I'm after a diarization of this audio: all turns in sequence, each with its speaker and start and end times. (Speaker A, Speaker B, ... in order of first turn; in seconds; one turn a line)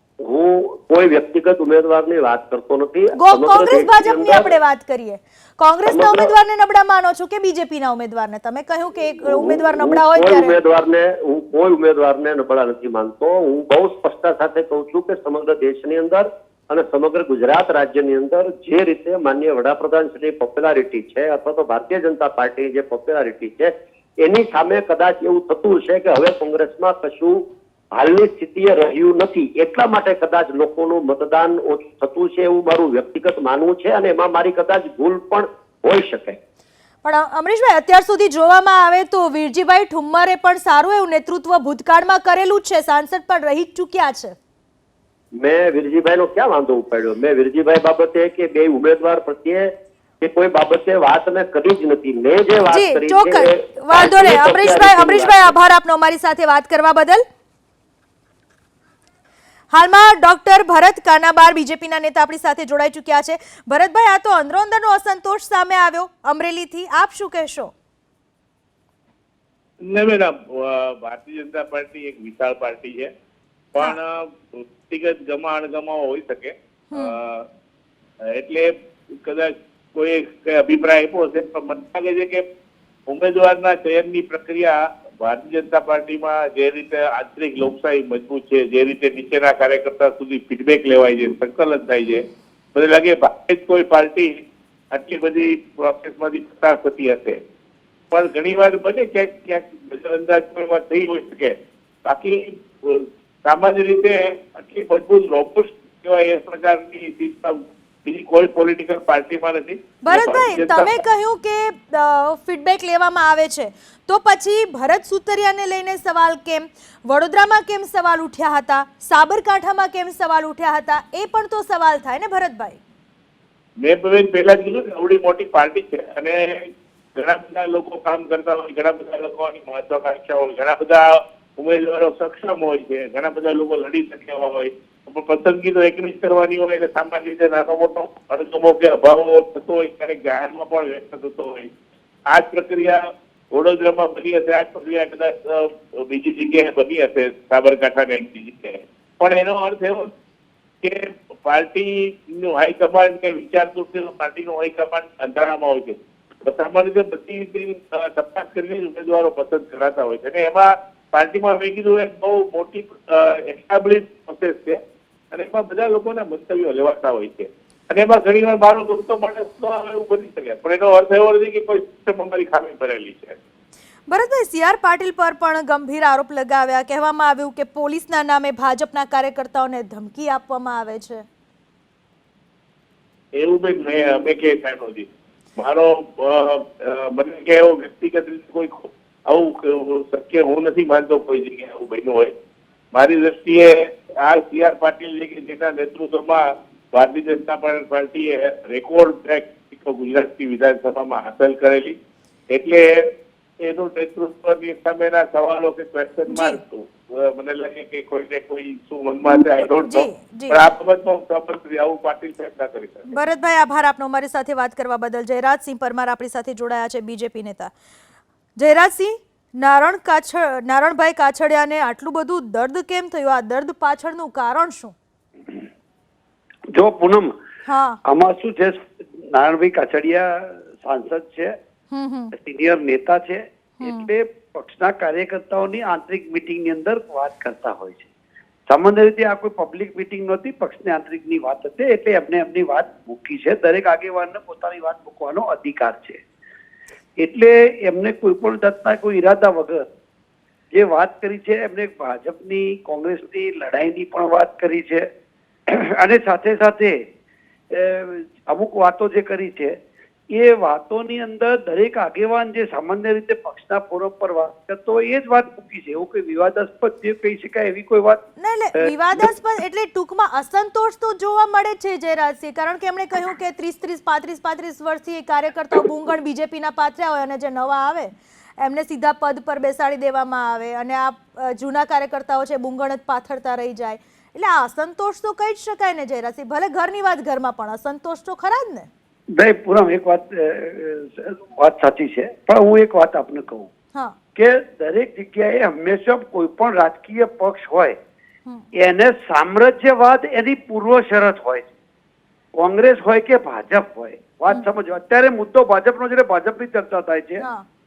Speaker A: 0.2-4.5
Speaker B: 3.2-10.6
Speaker A: 5.9-6.3
Speaker A: 9.2-27.4
Speaker A: 27.9-36.4
Speaker B: 37.0-44.4
Speaker A: 45.4-49.7
Speaker A: 50.2-55.5
Speaker B: 52.7-57.2
Speaker B: 59.7-67.7
Speaker C: 69.8-73.1
Speaker C: 73.7-77.5
Speaker C: 78.3-82.5
Speaker C: 83.1-94.4
Speaker C: 94.9-97.4
Speaker C: 98.1-111.0
Speaker B: 110.1-122.8
Speaker C: 123.8-126.6
Speaker C: 127.2-131.1
Speaker C: 131.6-141.7
Speaker C: 142.3-143.0
Speaker C: 143.5-150.1
Speaker C: 150.8-164.8
Speaker C: 165.3-173.4
Speaker B: 174.1-181.2
Speaker C: 183.4-192.3
Speaker C: 192.9-196.4
Speaker C: 196.9-202.0
Speaker C: 202.5-202.9
Speaker C: 203.6-213.2
Speaker B: 206.3-206.6
Speaker B: 209.8-210.6
Speaker B: 213.1-217.7
Speaker B: 218.6-224.9
Speaker D: 226.7-227.3
Speaker B: 227.7-228.0
Speaker D: 228.1-231.6
Speaker B: 231.9-232.3
Speaker D: 232.3-238.1
Speaker B: 233.8-234.1
Speaker D: 238.7-246.2
Speaker D: 247.2-249.9
Speaker D: 250.7-255.1
Speaker D: 255.7-257.0
Speaker D: 257.7-259.8
Speaker D: 260.3-268.2
Speaker B: 268.4-288.9
Speaker D: 289.4-293.7
Speaker D: 294.4-298.0
Speaker D: 298.8-301.7
Speaker D: 302.6-307.4
Speaker B: 307.4-307.6